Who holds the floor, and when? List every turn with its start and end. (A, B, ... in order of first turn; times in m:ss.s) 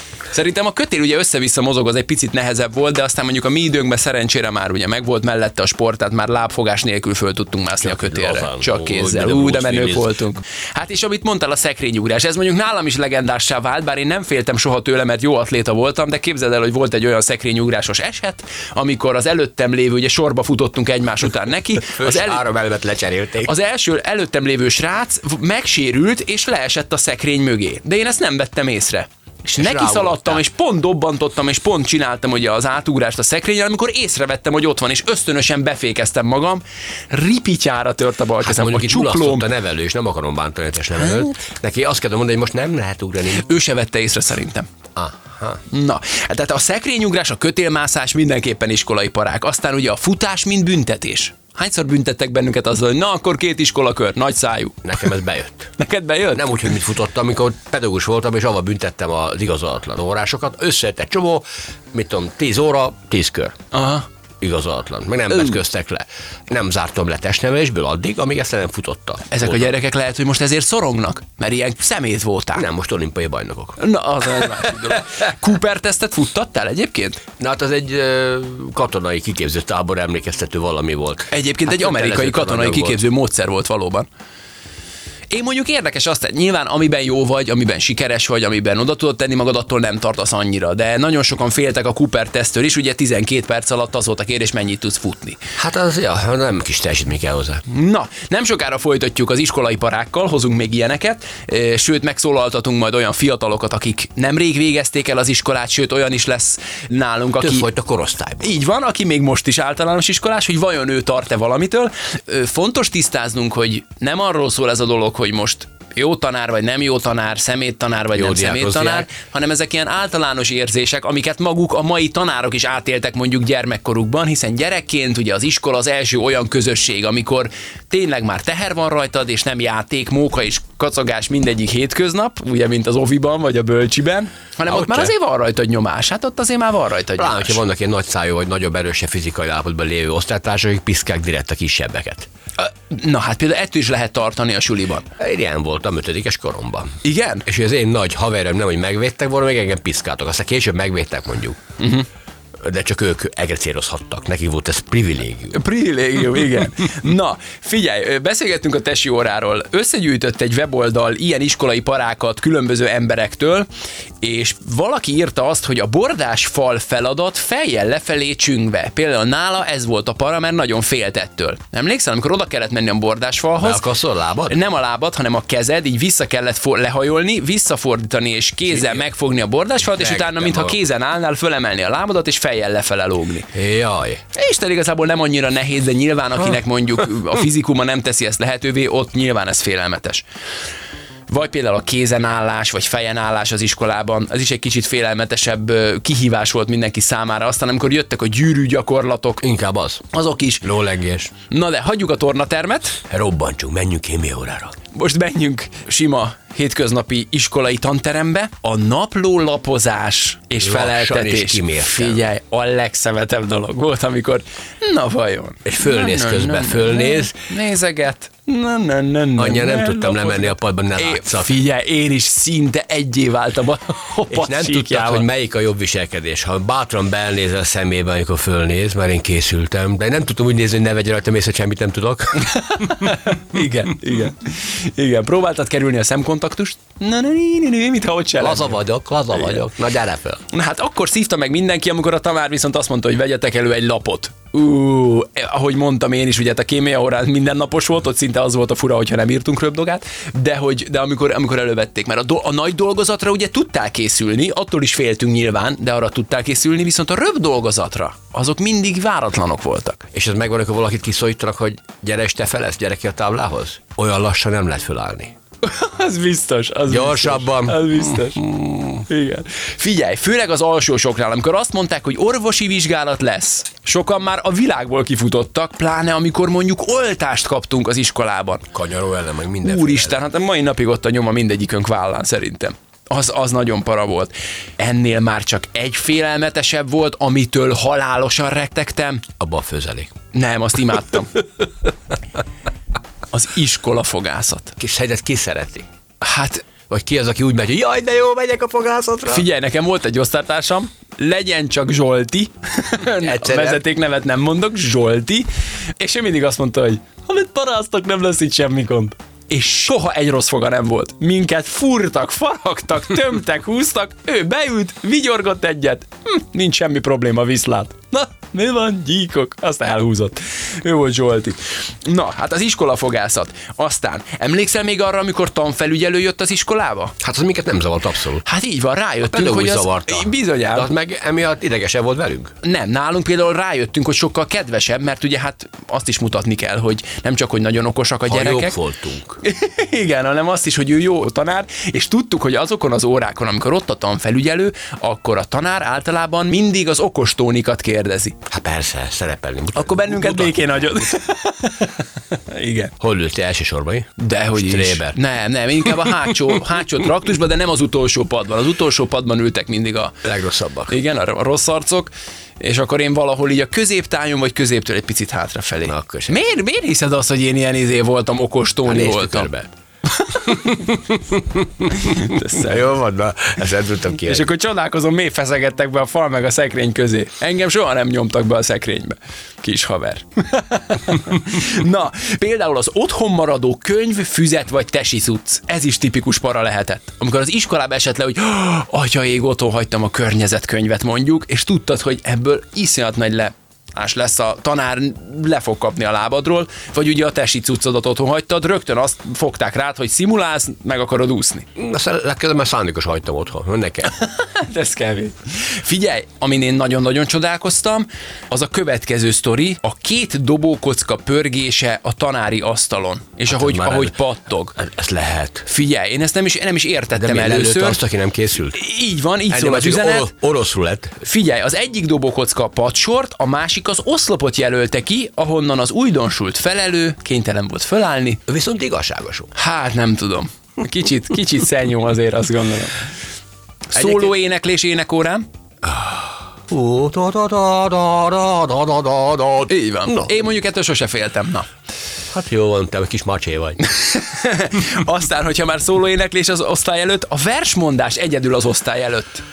0:00.3-0:22.4 A
0:07.8-0:10.1 B
0:21.8-0:23.5 B
0:23.4-0:39.4 A
0:29.6-0:30.4 B
0:38.4-0:43.4 B
0:43.4-0:44.7 A
0:44.9-0:45.6 B
0:45.7-0:54.8 A
0:54.8-0:55.7 B
0:55.8-0:56.5 A
0:56.3-1:03.6 B
1:03.7-1:04.0 A
1:04.4-1:09.7 B
1:09.3-1:12.6 A
1:12.5-1:13.8 B
1:13.8-1:17.2 A
1:17.4-1:23.0 B
1:21.3-1:24.1 A
1:25.3-1:35.4 A
1:35.6-1:37.6 B
1:37.7-1:47.7 A
1:47.4-1:48.5 B
1:48.4-2:17.6 A
1:58.1-1:59.1 B
2:14.7-2:15.1 B
2:17.2-2:22.3 B
2:22.6-2:25.0 A
2:25.2-2:31.6 B
2:27.0-2:27.4 A
2:31.8-2:32.0 A
2:32.6-2:35.6 B
2:35.5-2:43.7 A
2:44.2-2:53.8 A
2:53.6-2:54.6 B
2:54.5-3:03.5 A
2:58.7-2:59.0 B
2:59.8-3:00.8 B
3:03.5-3:04.2 B
3:04.3-3:10.2 A
3:11.3-3:19.4 A
3:19.4-3:20.0 B
3:20.1-3:20.6 A
3:20.6-3:21.3 B
3:21.5-3:23.0 A
3:23.1-3:24.8 B
3:24.9-3:45.2 A
3:30.6-3:32.2 B
3:35.6-3:37.4 B
3:39.4-3:41.6 B
3:44.3-3:53.0 B
3:52.4-3:58.8 A
3:58.4-4:00.4 B
4:00.5-4:20.0 A
4:20.1-4:25.3 B
4:25.6-4:28.4 A
4:26.9-4:29.0 B
4:29.1-4:38.6 A
4:38.7-4:40.2 B
4:39.6-4:49.2 A
4:49.4-4:50.1 B
4:50.3-4:51.4 A
4:53.3-4:54.8 A
4:54.8-4:55.9 B
4:56.2-4:56.6 A
4:56.9-4:59.4 B
4:59.3-5:05.5 A
5:03.2-5:03.8 B
5:06.0-5:27.2 A
5:27.2-5:28.4 B
5:28.4-5:30.9 A
5:29.2-5:32.5 B
5:32.6-5:38.8 A
5:38.3-5:39.4 B
5:39.4-5:48.4 A
5:48.5-5:50.7 B
5:49.7-5:52.9 A
5:53.0-5:55.2 B
5:54.2-6:00.2 A
5:55.8-5:56.5 B
6:00.2-6:01.0 B
6:00.9-6:09.5 A
6:05.8-6:06.4 B
6:08.8-6:09.7 B
6:10.2-6:10.7 A
6:10.3-6:14.5 B
6:11.9-6:12.8 A
6:14.2-6:41.6 A
6:41.8-6:44.1 B
6:44.1-6:54.8 A
6:53.5-6:54.1 B
6:54.8-6:55.7 B
6:55.6-6:58.0 A
6:57.1-6:58.8 B
6:58.7-7:00.3 A
6:59.5-7:01.2 B
7:01.2-7:08.4 A
7:08.5-7:09.5 B
7:09.5-7:13.0 A
7:13.9-7:15.4 A
7:13.9-7:14.3 B
7:15.8-7:20.3 B
7:19.7-7:21.7 A
7:22.3-7:23.8 B
7:23.9-7:29.4 A